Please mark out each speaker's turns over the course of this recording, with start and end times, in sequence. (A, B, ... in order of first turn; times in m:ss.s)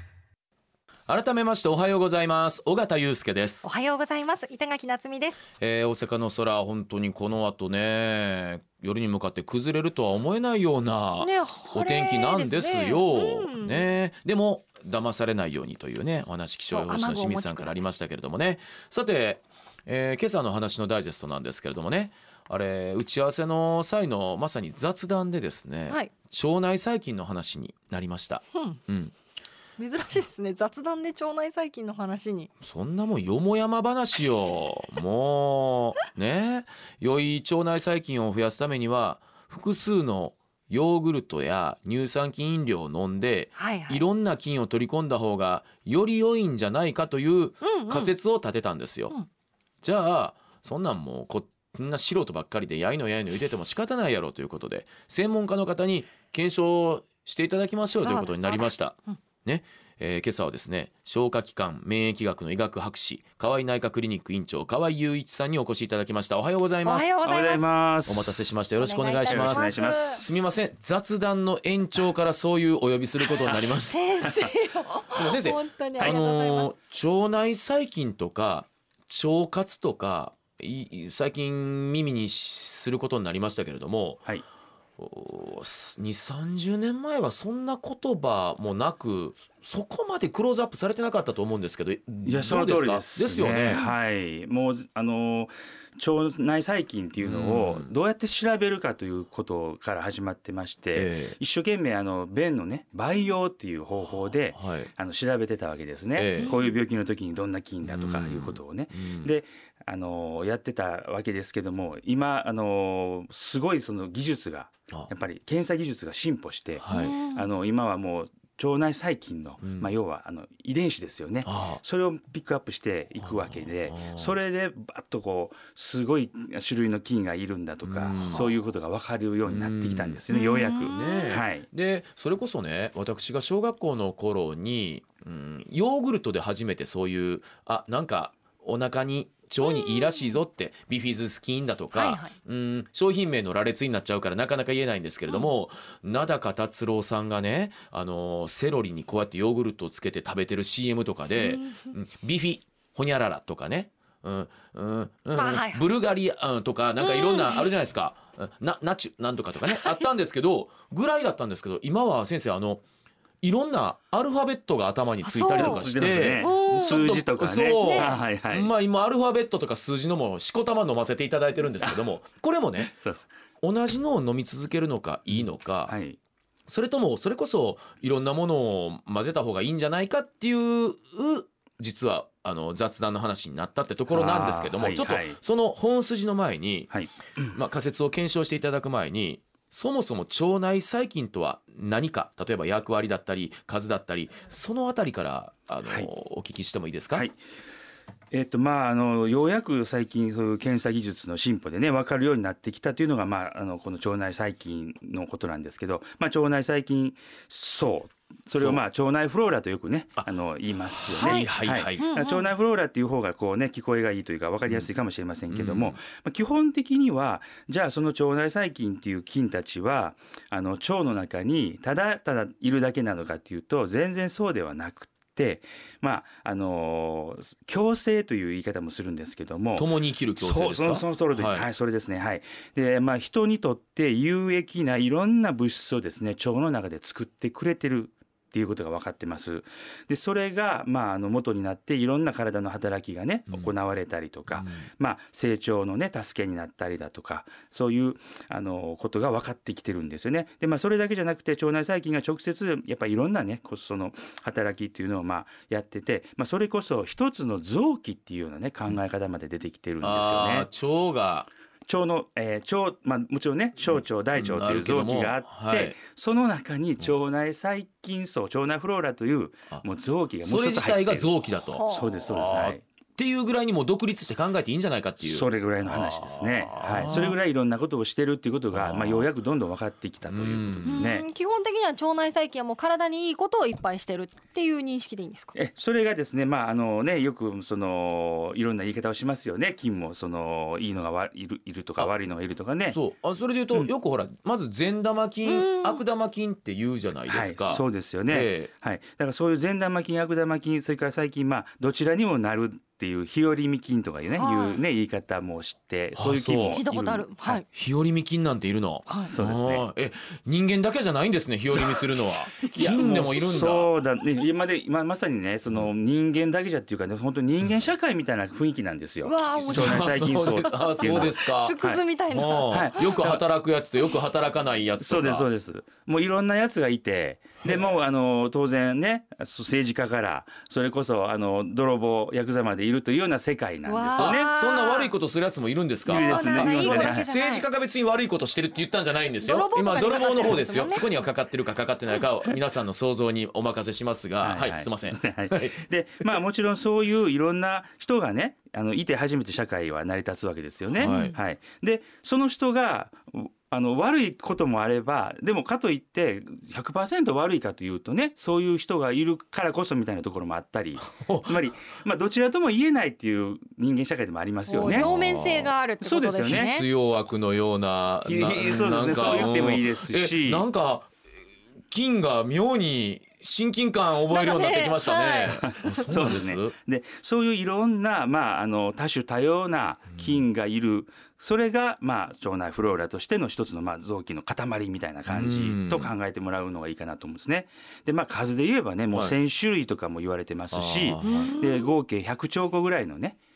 0:01.1-0:03.6 A
0:03.6-0:05.4 B
0:05.6-0:29.1 A
0:11.2-0:13.9 B
0:16.7-0:17.8 B
0:29.8-0:32.5 B
0:32.6-0:49.2 A
0:43.6-0:44.0 B
0:47.6-0:48.1 B
0:49.8-1:07.1 A
0:58.0-0:59.2 B
1:06.8-1:07.6 B
1:07.2-1:08.5 C
1:08.1-1:14.2 A
1:08.8-1:10.2 B
1:09.3-1:10.2 C
1:13.3-1:16.7 B
1:14.2-1:14.5 C
1:15.1-1:24.2 A
1:25.0-1:33.8 A
1:32.3-2:11.7 C
1:37.2-1:37.9 A
1:41.0-1:41.4 A
1:44.2-1:44.9 A
1:46.2-1:46.6 A
1:46.4-1:46.7 B
1:47.9-1:49.3 A
1:56.8-1:57.2 A
1:56.9-1:57.5 B
1:59.6-1:59.9 A
2:01.4-2:01.8 A
2:03.2-2:04.4 A
2:07.8-2:08.5 A
2:09.5-2:10.2 A
2:10.3-2:11.4 B
2:10.8-2:42.8 A
2:22.0-2:22.3 B
2:31.5-2:31.8 B
2:35.3-2:35.9 B
2:37.0-2:37.7 B
2:43.4-2:52.9 A
2:45.2-2:47.2 B
2:45.5-2:48.7 C
2:47.8-2:48.1 B
2:52.8-2:53.3 C
2:53.6-2:56.0 A
2:55.3-2:56.2 C
2:56.7-3:06.9 A
3:04.1-3:05.4 C
3:06.9-3:07.4 C
3:07.5-3:17.3 A
3:18.3-4:20.7 C
3:28.6-3:28.8 A
3:30.9-3:32.1 A
3:31.1-3:32.5 B
3:35.5-3:36.0 A
3:49.8-3:51.7 A
4:04.5-4:04.8 A
4:20.0-4:21.5 A
4:21.9-4:31.3 C
4:23.9-4:26.0 A
4:30.4-4:37.4 A
4:31.8-4:32.1 B
4:31.9-4:32.8 C
4:35.2-4:41.2 C
4:38.7-4:39.3 A
4:40.3-4:41.0 A
4:40.9-4:45.6 B
4:45.6-4:53.0 C
4:52.9-4:58.7 A
4:55.5-4:56.0 B
4:57.3-5:07.4 C
5:04.4-5:04.8 B
5:06.2-5:06.8 A
5:06.7-5:07.6 B
5:07.7-5:13.9 A
5:09.2-5:09.8 C
5:11.7-5:22.0 C
5:12.6-5:13.6 B
5:19.2-5:23.2 B
5:19.6-5:25.5 A
5:22.7-5:23.4 C
5:25.0-5:34.5 C
5:27.6-5:28.0 A
5:33.9-5:35.1 B
5:34.2-5:46.4 A
5:36.1-5:37.2 C
5:36.1-5:37.7 B
5:39.4-5:41.1 B
5:44.4-6:05.1 C
5:51.0-5:51.4 A
5:51.0-5:51.4 B
6:01.0-6:01.6 A
6:04.7-6:06.9 B
6:04.8-6:05.8 A
6:06.0-6:06.8 C
6:06.4-6:11.1 A
6:08.2-6:10.6 C
6:11.9-6:16.7 A
6:14.3-6:16.0 B
6:15.6-6:33.4 C
6:25.3-6:26.1 A
6:30.7-6:31.6 A
6:31.2-6:31.9 B